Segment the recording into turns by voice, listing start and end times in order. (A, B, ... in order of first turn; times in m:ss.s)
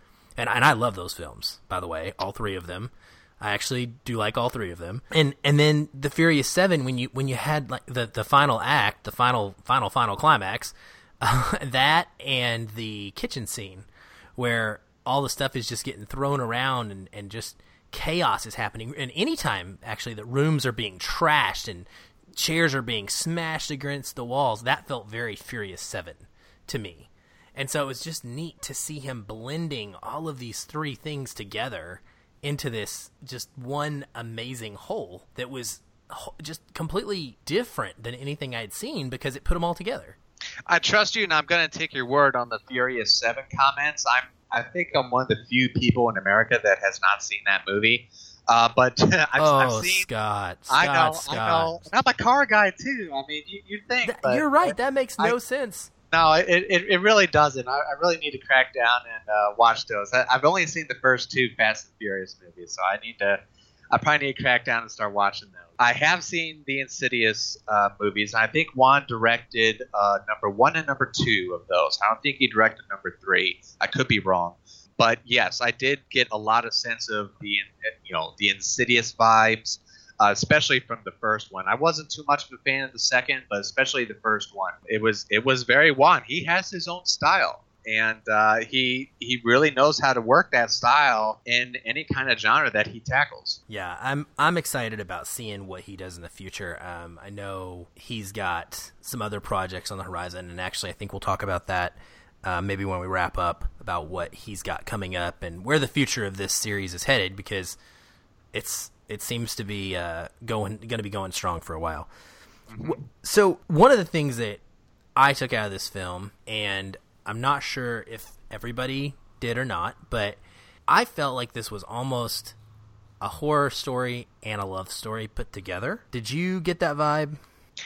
0:00.4-0:40.2 A
0:40.7-0:50.0 B
0:49.4-0:51.8 A
0:50.7-0:55.4 B
0:54.0-0:55.9 A
0:56.1-1:03.4 B
1:03.9-1:33.6 B
1:33.7-1:47.8 A
1:48.5-1:52.1 A
1:52.7-1:53.0 B
1:52.8-1:54.6 A
1:55.2-2:02.6 A
2:03.2-2:07.4 A